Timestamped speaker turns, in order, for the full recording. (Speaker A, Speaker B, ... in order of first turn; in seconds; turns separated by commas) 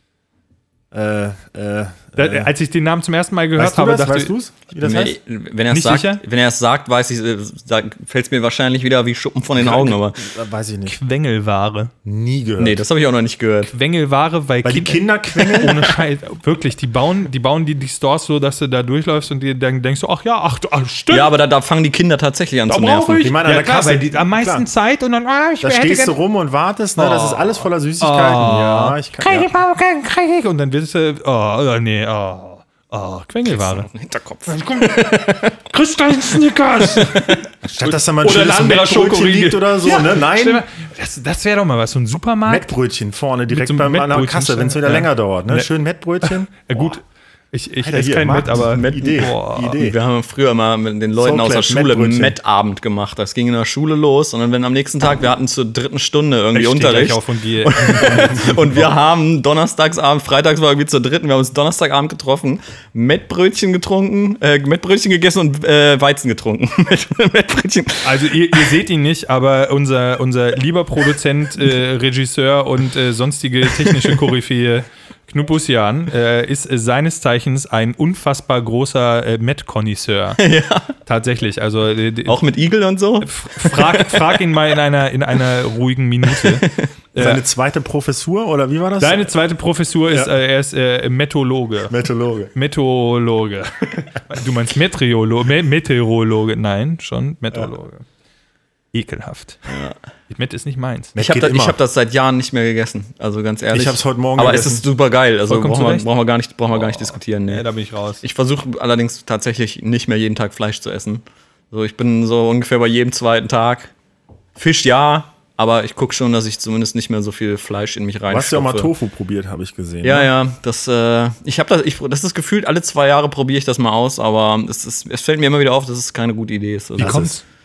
Speaker A: 0.9-2.5, Speaker B: 2.2-4.3, Speaker A: 3.6-5.2, Speaker C: 4.8-10.2, Speaker B: 5.7-6.2, Speaker A: 9.6-11.0, Speaker B: 10.9-11.9, Speaker A: 12.1-12.8, Speaker C: 12.6-13.7, Speaker B: 13.7-21.3, Speaker A: 14.6-16.0, Speaker C: 21.1-23.2, Speaker B: 22.7-26.2, Speaker A: 23.2-24.6, Speaker A: 25.6-29.5, Speaker B: 27.0-33.9, Speaker C: 33.5-35.5, Speaker B: 34.5-42.7, Speaker C: 37.0-37.3, Speaker A: 37.6-40.6, Speaker A: 42.5-46.9, Speaker B: 43.5-45.7, Speaker B: 46.2-49.8, Speaker A: 47.8-50.0, Speaker C: 48.7-68.7, Speaker A: 51.2-52.4, Speaker B: 56.5-58.8, Speaker B: 68.0-80.4, Speaker C: 73.8-74.1, Speaker C: 80.4-80.9, Speaker B: 81.1-82.4, Speaker C: 82.3-84.4, Speaker B: 83.2-87.4, Speaker C: 86.3-86.9, Speaker A: 87.2-89.3, Speaker B: 89.0-92.0, Speaker A: 91.9-92.5, Speaker B: 92.5-98.0, Speaker B: 98.9-99.6, Speaker C: 99.7-100.0, Speaker B: 100.3-101.2, Speaker A: 101.2-101.8, Speaker C: 101.2-107.7, Speaker A: 103.7-104.8, Speaker B: 105.5-106.1, Speaker B: 106.7-108.2, Speaker C: 108.2-113.9, Speaker C: 114.6-118.9, Speaker A: 118.3-120.3, Speaker C: 120.0-127.3, Speaker A: 127.0-127.3, Speaker B: 127.0-127.4